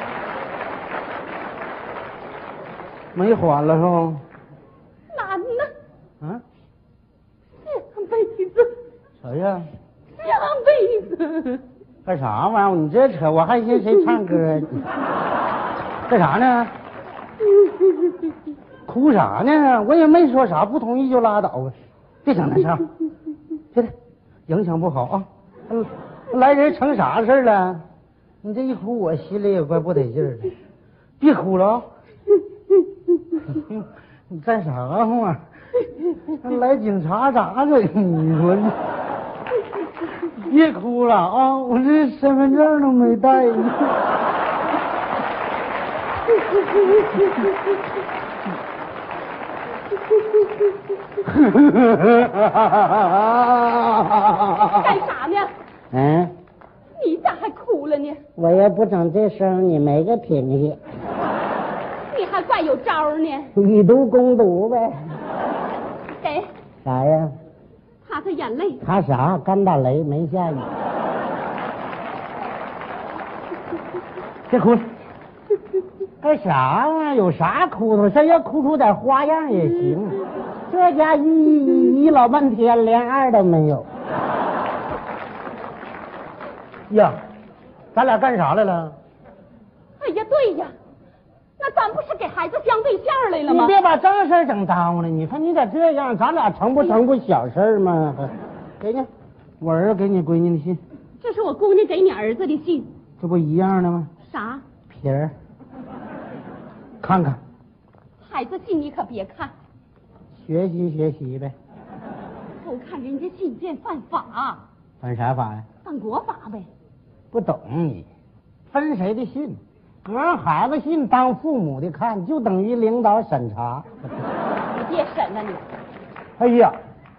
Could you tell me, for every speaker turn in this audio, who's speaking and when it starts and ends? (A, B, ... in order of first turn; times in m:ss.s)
0:03.1-0:04.2 A
0:05.1-0:05.7 B
0:07.5-0:08.7 B
0:09.2-0:09.7 A
0:10.1-0:11.6 B
0:12.0-0:14.8 A
0:16.1-0:16.7 A
0:18.8-0:22.9 A
0:24.5-0:27.8 A
0:28.4-0:30.5 A
0:31.2-0:31.9 A
0:33.3-0:35.4 A
0:36.3-0:38.8 A
0:40.2-0:44.0 A
0:47.1-0:47.5 A
0:51.2-0:55.0 A
0:54.6-0:55.5 B
0:55.9-0:56.3 A
0:57.0-0:58.2 B
0:58.4-1:00.8 A
1:02.1-1:03.5 B
1:03.5-1:05.2 A
1:06.2-1:06.5 B
1:06.8-1:07.3 A
1:08.0-1:08.8 B
1:08.8-1:10.7 A
1:14.5-1:14.9 A
1:16.2-1:23.9 A
1:26.9-1:27.2 A
1:27.9-1:29.0 A
1:30.0-1:30.7 B
1:31.6-1:33.8 B
1:33.4-1:40.8 A
1:41.2-1:42.9 B
1:43.2-1:44.1 A
1:44.2-1:44.6 B
1:44.9-1:45.3 A
1:47.0-1:47.4 A
1:48.2-1:49.5 B
1:50.4-1:51.5 A
1:52.6-1:54.6 B
1:55.0-1:55.6 A
1:55.8-1:56.7 B
1:57.3-1:58.1 A
1:58.7-2:03.9 A
2:04.7-2:05.6 B
2:06.4-2:06.8 A